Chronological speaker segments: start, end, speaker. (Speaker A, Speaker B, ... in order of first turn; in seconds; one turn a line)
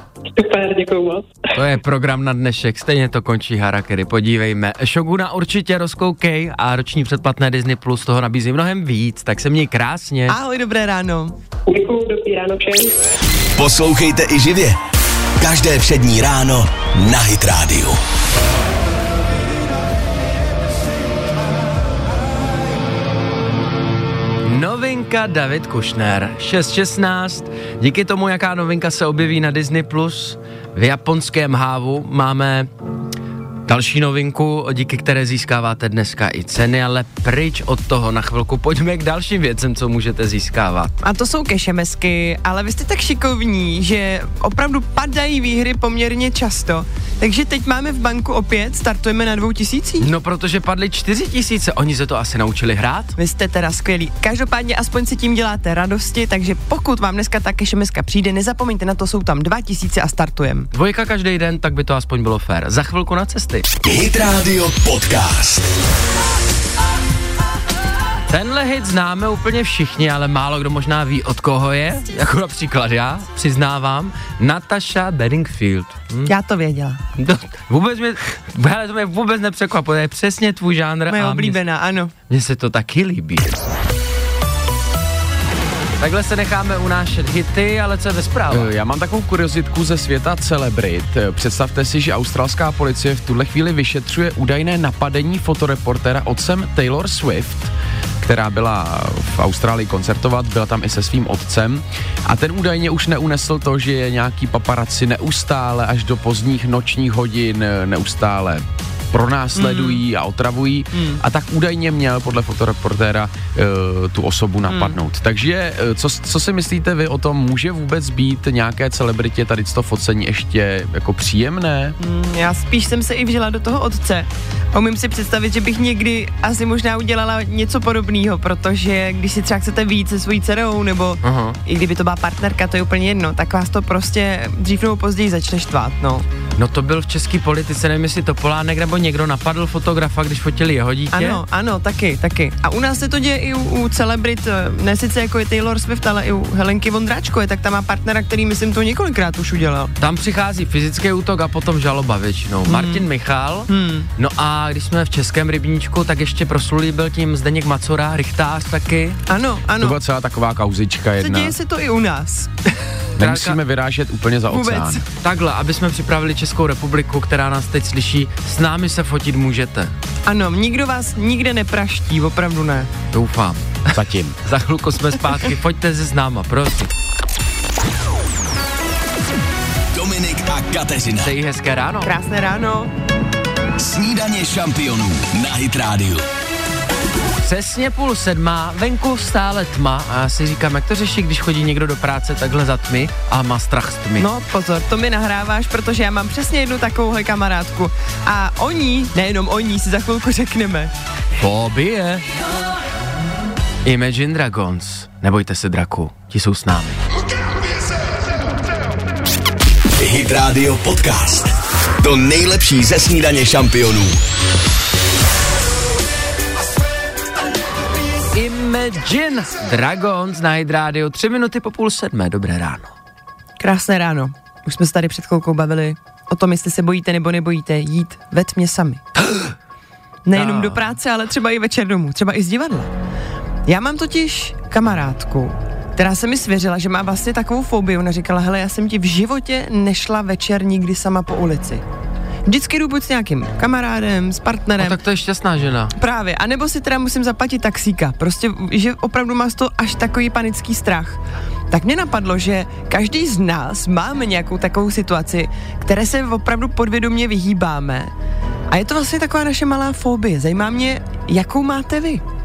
Speaker A: 0.3-1.3
Speaker B: 1.5-10.4
Speaker C: 10.3-11.3
Speaker A: 11.7-12.9
Speaker D: 13.6-14.8
Speaker D: 15.4-18.0
Speaker B: 24.4-32.7
Speaker B: 33.7-40.9
Speaker C: 41.0-50.1
Speaker B: 50.0-53.1
Speaker C: 53.2-60.7
Speaker B: 60.7-63.7
Speaker D: 63.8-65.7
Speaker B: 68.3-76.3
Speaker C: 76.3-77.0
Speaker B: 77.2-81.6
Speaker C: 81.1-82.1
Speaker B: 82.3-83.5
Speaker B: 86.0-88.7
Speaker E: 88.5-122.0
Speaker C: 109.6-110.0
Speaker C: 111.0-111.2
Speaker C: 114.7-115.0
Speaker C: 122.0-136.2
Speaker B: 131.2-131.6
Speaker B: 136.6-141.4
Speaker C: 141.1-149.9
Speaker B: 150.0-159.2
Speaker C: 152.7-153.1
Speaker C: 153.7-154.1
Speaker C: 159.3-160.0
Speaker E: 159.8-161.6
Speaker C: 161.2-162.7
Speaker E: 163.2-165.0
Speaker B: 163.2-163.6
Speaker C: 164.5-165.0
Speaker B: 165.2-169.9
Speaker C: 170.3-172.9
Speaker B: 173.1-176.9
Speaker E: 173.9-174.4
Speaker D: 179.9-181.3
Speaker B: 181.2-182.1
Speaker C: 182.0-182.9
Speaker D: 183.8-186.2
Speaker B: 187.4-194.3
Speaker C: 194.2-200.9
Speaker B: 201.4-202.2
Speaker B: 203.8-207.0
Speaker D: 210.0-214.2
Speaker B: 218.3-222.9
Speaker C: 223.6-229.0
Speaker B: 229.2-229.5
Speaker C: 230.3-232.9
Speaker B: 230.3-230.8
Speaker C: 233.7-241.8
Speaker C: 242.5-245.0
Speaker B: 244.8-245.9
Speaker C: 246.0-258.1
Speaker C: 258.7-262.2